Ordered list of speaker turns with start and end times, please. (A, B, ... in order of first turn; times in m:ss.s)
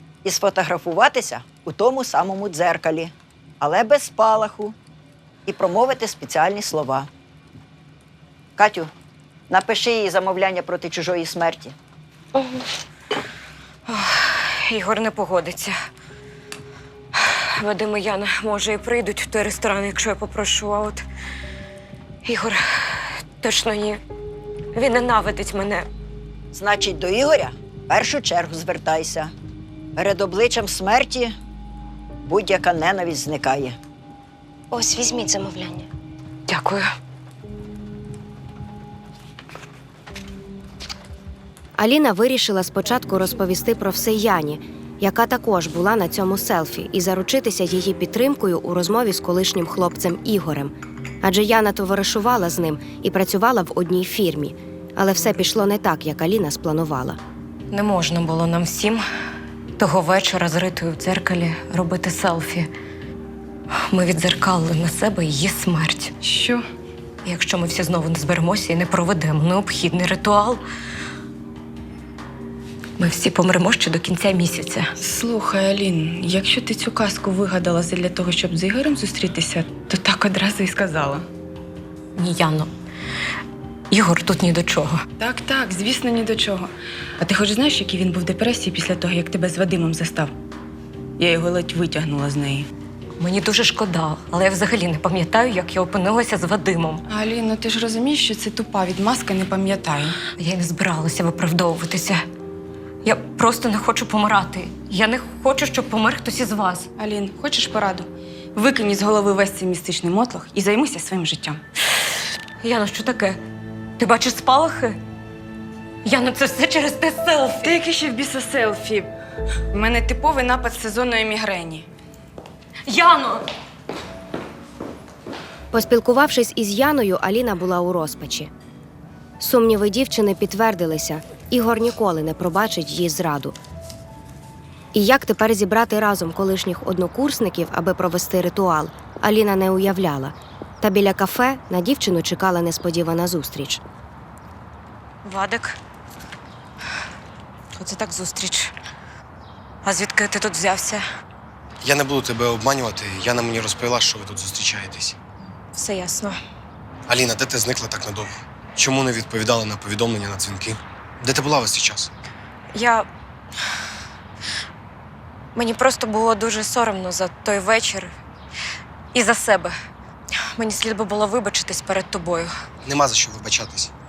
0:00.2-0:04.8 A
0:05.5-0:07.1 A
0:08.6-0:08.9 A
0:09.5-0:11.8 A
0:12.4-0:12.7 B
0:13.9-0:15.7 B
0:17.2-0:21.0 B
0:22.2-0:24.0 B
0:24.7-0:25.9 B
0:26.5-0:29.3 A
0:30.0-0:31.3 A
0:32.3-0:33.8 A
0:34.7-0:35.9 C
0:36.5-0:36.9 B
0:41.8-0:57.2 C
0:57.7-0:59.0 B
0:59.8-1:02.7 B
1:03.7-1:06.1 B
1:06.2-1:06.6 D
1:07.2-1:10.6 B
1:13.0-1:14.9 B
1:15.0-1:21.3 D
1:22.2-1:22.7 B
1:23.9-1:25.0 B
1:25.2-1:30.3 D
1:31.2-1:32.7 D
1:33.2-1:37.0 B
1:37.1-1:40.2 D
1:40.4-1:42.2 B
1:43.0-1:46.9 B
1:47.0-1:51.6 D
1:52.6-1:53.4 B
1:54.0-1:55.0 B
1:56.0-1:57.7 B
1:57.6-1:59.1 D
1:59.7-2:01.9 D
2:02.9-2:03.5 B
2:05.7-2:08.5 C
2:09.4-2:13.6 C
2:14.9-2:23.8 C
2:25.2-2:25.8 B
2:27.8-2:28.7 B
2:29.8-2:31.0 B
2:31.8-2:35.2 E
2:35.7-2:36.4 B
2:37.1-2:42.1 E
2:42.7-2:43.1 B
2:45.6-2:48.1 B
2:49.1-2:49.7 B
2:50.6-2:52.5 B
2:52.8-2:53.9 E